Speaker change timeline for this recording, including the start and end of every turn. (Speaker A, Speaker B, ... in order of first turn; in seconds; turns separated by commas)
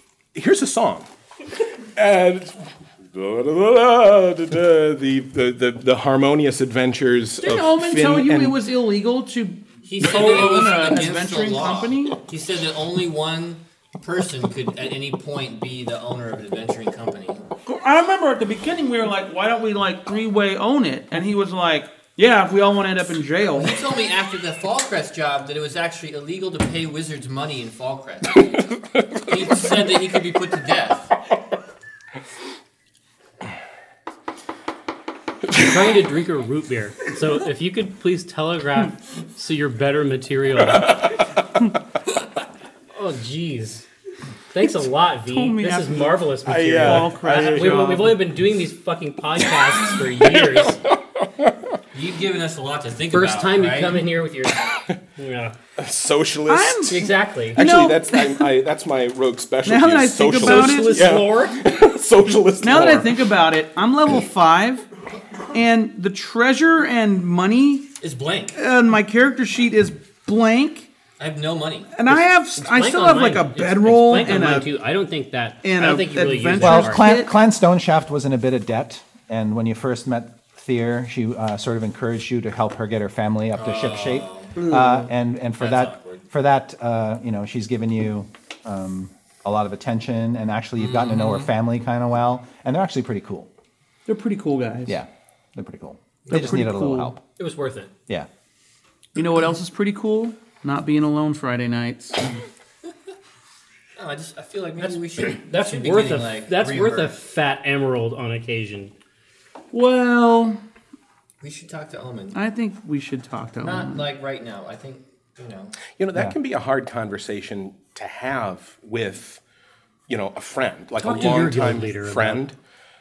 Speaker A: 0.3-1.1, Speaker A: 1.9-8.6, Speaker B: 7.4-12.2, Speaker C: 9.8-17.4, Speaker B: 17.7-23.8, Speaker C: 23.6-31.2, Speaker D: 35.5-41.2, Speaker D: 42.9-43.9, Speaker D: 44.5-50.8, Speaker B: 45.3-46.2, Speaker A: 46.5-48.0, Speaker B: 46.8-48.2, Speaker A: 50.1-51.6, Speaker C: 51.9-54.0, Speaker D: 53.1-55.6, Speaker A: 55.8-63.3, Speaker B: 56.5-58.5, Speaker D: 56.9-57.6, Speaker B: 59.6-61.1, Speaker D: 60.3-61.6, Speaker B: 62.6-64.9, Speaker B: 65.5-67.9, Speaker C: 68.0-68.6, Speaker B: 68.5-70.9, Speaker C: 71.2-71.9, Speaker B: 71.9-74.8, Speaker D: 72.1-77.0, Speaker B: 75.6-77.3, Speaker E: 76.6-93.5, Speaker C: 83.5-84.6, Speaker B: 84.6-85.1, Speaker C: 85.6-86.2, Speaker C: 90.8-91.5, Speaker B: 94.1-95.0, Speaker E: 94.9-97.2, Speaker B: 96.3-97.2, Speaker D: 97.4-97.9, Speaker B: 99.2-102.2, Speaker C: 104.0-107.2, Speaker D: 104.8-108.9, Speaker B: 109.7-110.6, Speaker C: 111.4-112.4, Speaker B: 112.3-114.0, Speaker C: 113.6-115.8, Speaker A: 115.9-119.4, Speaker A: 120.1-122.5, Speaker D: 121.0-122.5